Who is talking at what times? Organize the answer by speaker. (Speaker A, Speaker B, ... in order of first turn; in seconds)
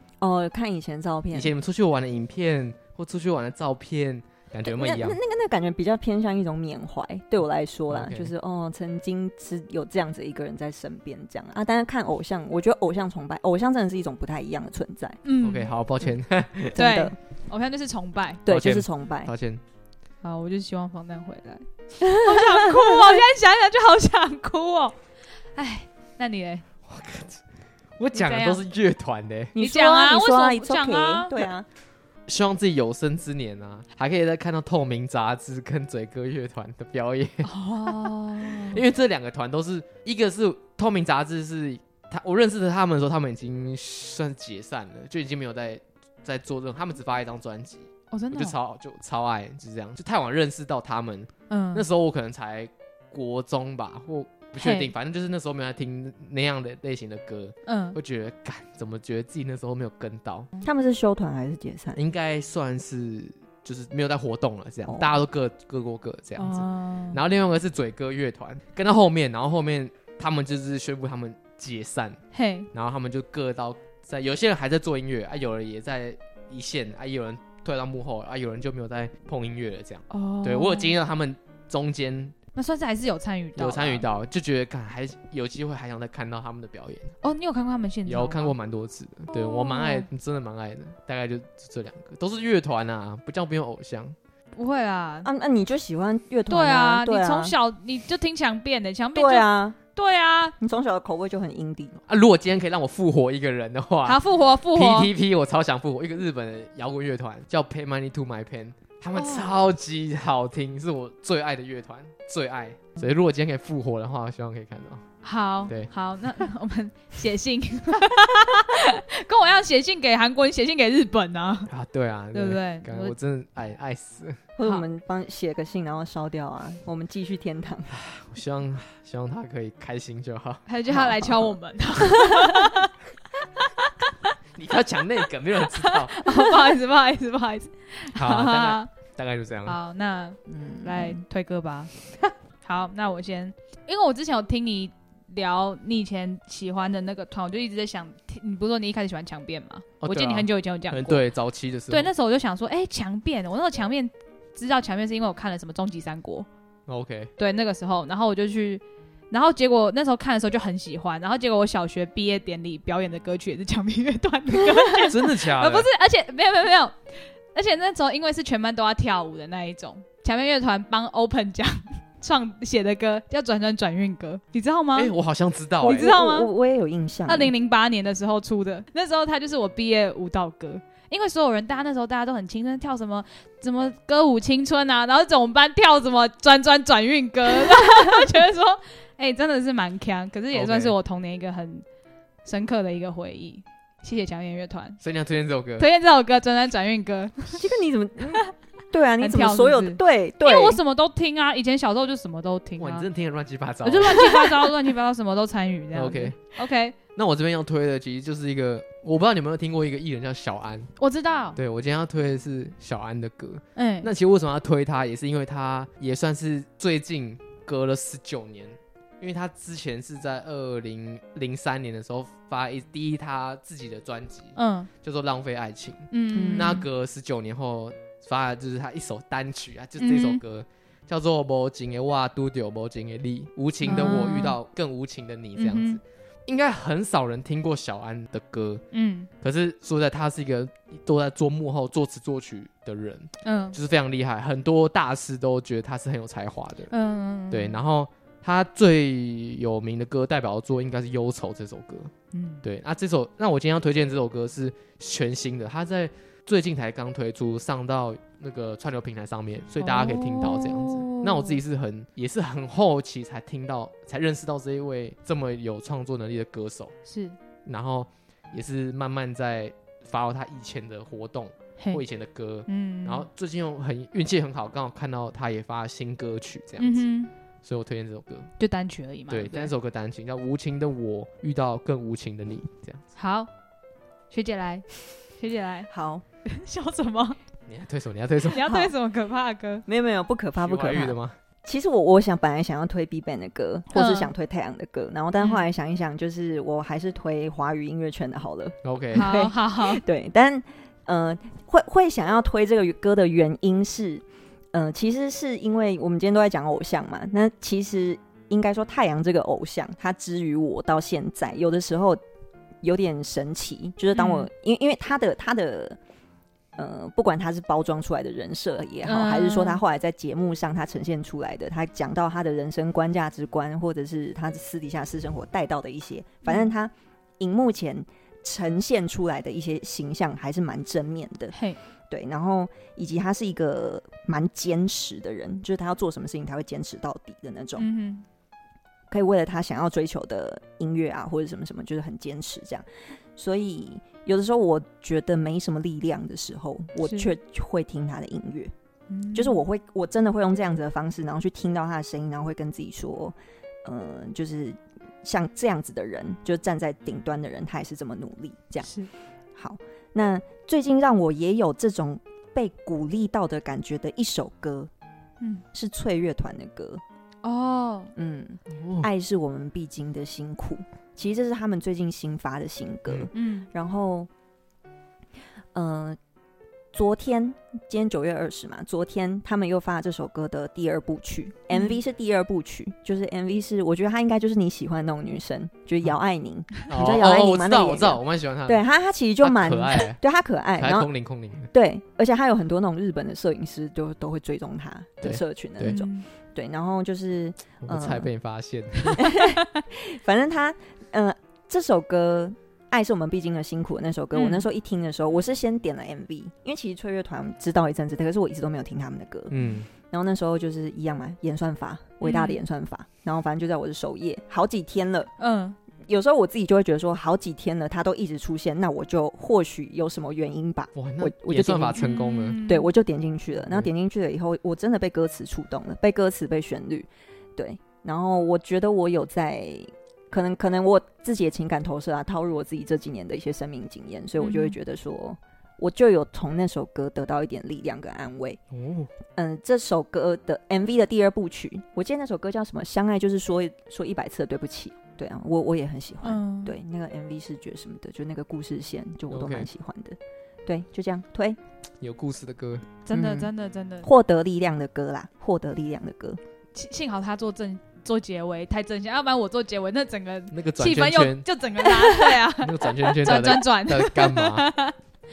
Speaker A: 0.2-1.5, 4.7-15.2, 16.8-17.2, 18.5-19.3, 22.1-23.2, 29.6-31.7, 60.6-62.0, 95.2-97.5, 99.2-99.8, 100.6-102.0, 124.6-127.9, 130.9-131.6, 140.5-141.2, 175.9-177.5, 197.6-200.8, 226.3-226.8, 285.9-286.2, 288.7-288.9, 289.9-312.2, 312.8-316.0, 316.8-331.6, 332.1-337.9, 339.1-348.7, 349.3-358.9, 359.6-364.9, 365.7-367.0, 368.2-374.3, 375.7-376.2, 376.9-391.1, 391.7-398.3, 399.1-415.3, 416.0-422.1, 422.7-438.6, 439.3-451.6, 453.1-453.5, 454.0-456.4
Speaker B: 1.3-5.2, 7.9-8.3, 15.4-16.8, 18.5-19.6, 26.9-27.4, 28.0-29.6, 32.3-37.5, 38.5-60.5, 62.0-72.2, 72.7-82.4, 83.6-87.1, 88.1-94.2, 102.1-115.0, 121.7-124.4, 127.9-130.7, 134.6-136.2, 138.1-139.8, 150.0-152.1, 156.9-157.3, 165.0-165.9, 174.9-176.1, 190.5-191.0, 195.0-195.9, 202.8-204.7, 205.9-206.4, 207.2-210.9, 211.6-238.8, 239.4-246.9, 247.5-252.1, 252.6-266.9, 267.6-277.0, 277.6-278.5, 279.3-283.0, 287.7-288.7, 290.6-291.4, 298.8-299.3, 368.7-369.1, 386.9-388.9, 389.4-390.2, 390.8-391.7, 395.2-396.0, 397.8-399.2, 409.5-409.9, 421.0-422.6, 438.7-439.1, 449.3-449.7, 452.0-452.9, 460.5-461.5, 462.2-464.7
Speaker C: 15.2-15.7, 16.8-18.4, 20.2-25.0, 25.5-26.7, 28.1-28.6, 29.6-31.3, 37.5-38.8, 48.1-48.6, 51.5-51.9, 54.6-54.9, 57.7-58.0, 66.4-67.2, 72.3-72.7, 80.1-81.0, 82.5-84.1, 87.2-88.5, 89.3-90.1, 94.6-95.3, 96.5-100.5, 104.0-105.1, 109.1-109.5, 115.2-121.7, 122.3-123.2, 130.7-132.9, 133.6-134.1, 135.8-138.9, 139.7-141.9, 142.6-151.2, 151.9-156.5, 157.4-175.1, 175.8-176.5, 177.3-191.8, 192.4-195.0, 195.8-197.6, 199.2-203.1, 203.8-207.0, 211.0-211.6, 213.8-214.1, 224.6-224.9, 226.1-226.8, 230.0-230.4, 233.8-234.6, 235.6-236.0, 238.9-239.3, 243.4-243.8, 246.9-247.8, 252.3-252.6, 259.8-261.6, 267.1-267.4, 272.7-273.3, 276.8-277.3, 278.6-279.7, 283.2-283.5, 284.3-284.9, 285.4-285.9, 286.4-287.4, 288.4-289.8, 293.9-294.3, 295.4-295.7, 299.1-300.0, 314.1-314.5, 319.0-319.8, 326.5-326.7, 331.5-331.8, 337.8-338.2, 347.0-347.3, 349.1-349.6, 358.8-359.1, 367.4-368.1, 373.3-373.7, 381.7-382.0, 395.9-396.3, 399.1-399.4, 404.3-404.7, 412.2-412.6, 415.4-415.8, 422.0-422.9, 434.4-434.8, 446.2-446.8, 453.1-454.1, 456.8-465.0